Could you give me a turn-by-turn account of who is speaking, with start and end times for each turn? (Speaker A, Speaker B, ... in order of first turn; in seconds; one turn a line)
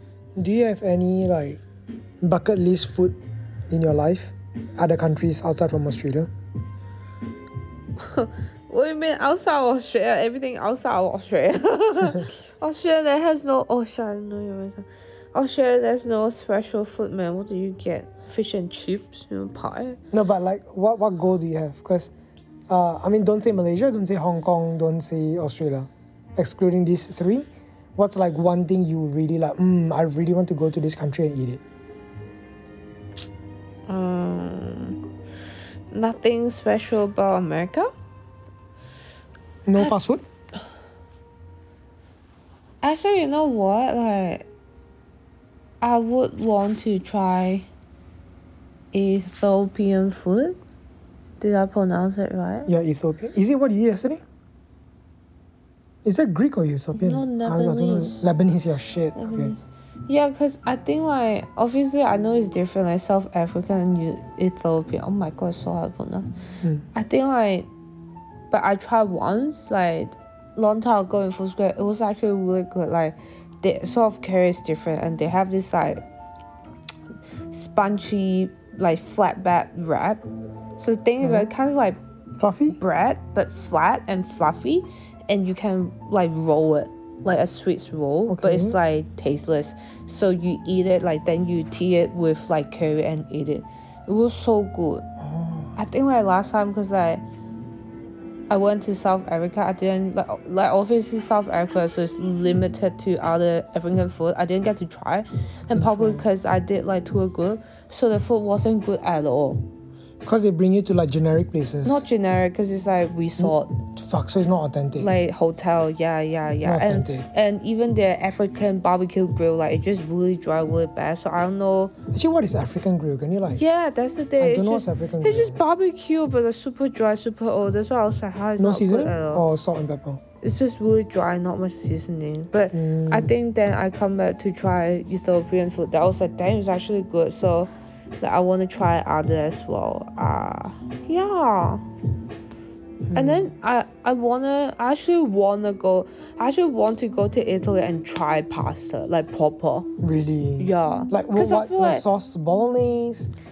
Speaker A: 0.3-1.6
Speaker A: 2.2-3.1
Speaker A: 3.7-6.3
Speaker B: 8.0-20.0
Speaker A: 20.1-22.1
Speaker A: 22.7-31.6
Speaker B: 33.9-35.0
Speaker B: 35.9-37.9
Speaker A: 39.6-40.2
Speaker B: 42.8-44.5
Speaker B: 45.8-47.7
Speaker B: 48.9-50.6
Speaker B: 51.4-52.7
Speaker A: 52.7-54.2
Speaker A: 56.0-59.5
Speaker B: 56.9-58.3
Speaker B: 59.1-66.3
Speaker B: 66.9-67.7
Speaker B: 68.5-76.0
Speaker B: 77.5-80.2
Speaker B: 80.8-82.0
Speaker A: 81.2-81.5
Speaker A: 82.4-82.8
Speaker B: 82.8-95.0
Speaker A: 88.3-88.8
Speaker A: 95.2-95.7
Speaker B: 95.8-97.2
Speaker B: 98.5-109.6
Speaker A: 105.7-106.2
Speaker A: 110.2-112.0
Speaker B: 111.8-113.8
Speaker A: 113.4-115.1
Speaker B: 114.9-121.9
Speaker A: 116.6-117.3
Speaker A: 122.1-123.6
Speaker B: 123.5-129.4
Speaker A: 124.4-125.6
Speaker A: 128.6-130.2
Speaker B: 130.4-137.7
Speaker A: 132.7-133.3
Speaker B: 138.2-141.8
Speaker A: 143.1-143.5
Speaker B: 143.1-149.9
Speaker A: 150.0-153.3
Speaker B: 150.6-152.0